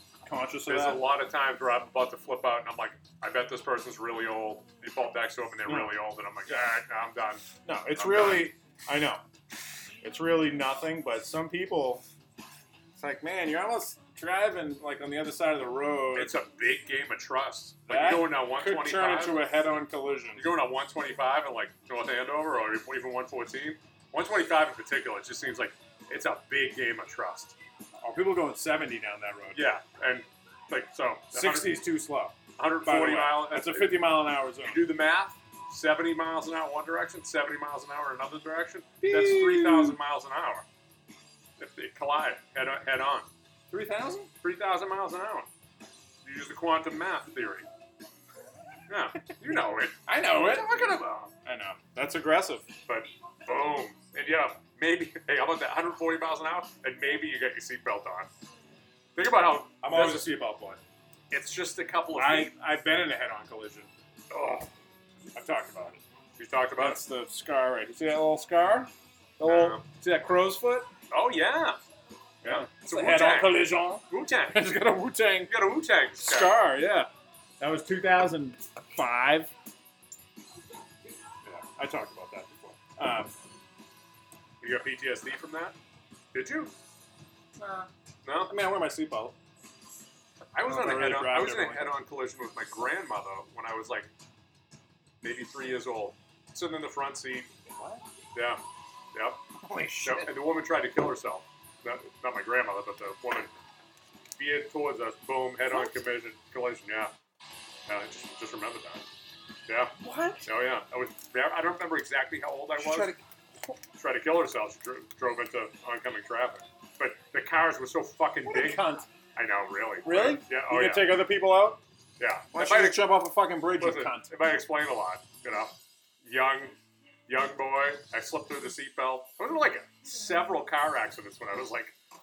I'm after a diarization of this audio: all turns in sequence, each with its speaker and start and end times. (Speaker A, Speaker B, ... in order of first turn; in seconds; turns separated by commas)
Speaker A: 0.2-1.1, Speaker B: 0.7-8.5, Speaker A: 5.6-6.7, Speaker A: 7.6-9.2, Speaker A: 10.0-12.0, Speaker A: 13.0-16.3, Speaker B: 16.1-19.5, Speaker A: 17.9-20.4, Speaker B: 20.4-27.6, Speaker A: 28.0-29.7, Speaker B: 29.5-31.9, Speaker A: 31.3-34.8, Speaker B: 32.5-40.6, Speaker A: 39.0-40.0, Speaker B: 41.6-43.3, Speaker A: 43.7-44.3, Speaker B: 44.4-45.5, Speaker B: 46.2-47.7, Speaker B: 48.9-51.3, Speaker A: 50.1-50.7, Speaker A: 51.4-52.7, Speaker B: 52.9-58.3, Speaker B: 59.1-60.3, Speaker A: 59.8-60.8, Speaker B: 61.3-62.5, Speaker A: 62.1-63.9, Speaker B: 64.3-64.7, Speaker A: 65.3-66.0, Speaker B: 66.3-67.0, Speaker A: 66.8-70.9, Speaker B: 69.4-69.8, Speaker B: 71.1-71.8, Speaker A: 72.4-75.5, Speaker B: 72.4-74.8, Speaker B: 75.5-76.6, Speaker A: 76.2-77.1, Speaker A: 77.6-79.5, Speaker A: 81.7-83.3, Speaker B: 84.6-85.8, Speaker B: 86.3-86.7, Speaker A: 87.6-87.9, Speaker B: 88.2-88.5, Speaker A: 88.5-89.3, Speaker B: 90.5-94.1, Speaker A: 90.7-91.9, Speaker B: 95.2-97.5, Speaker A: 97.7-98.0, Speaker B: 98.3-98.6, Speaker B: 99.1-99.4, Speaker A: 99.6-100.4, Speaker B: 100.0-103.5, Speaker B: 104.4-107.1, Speaker A: 105.7-106.0, Speaker B: 107.9-109.0, Speaker B: 109.7-113.1, Speaker A: 110.0-110.5, Speaker A: 112.8-113.2, Speaker B: 114.0-121.2, Speaker A: 118.4-119.1, Speaker A: 120.0-121.8, Speaker B: 122.2-126.8, Speaker A: 122.5-124.3, Speaker B: 127.3-131.9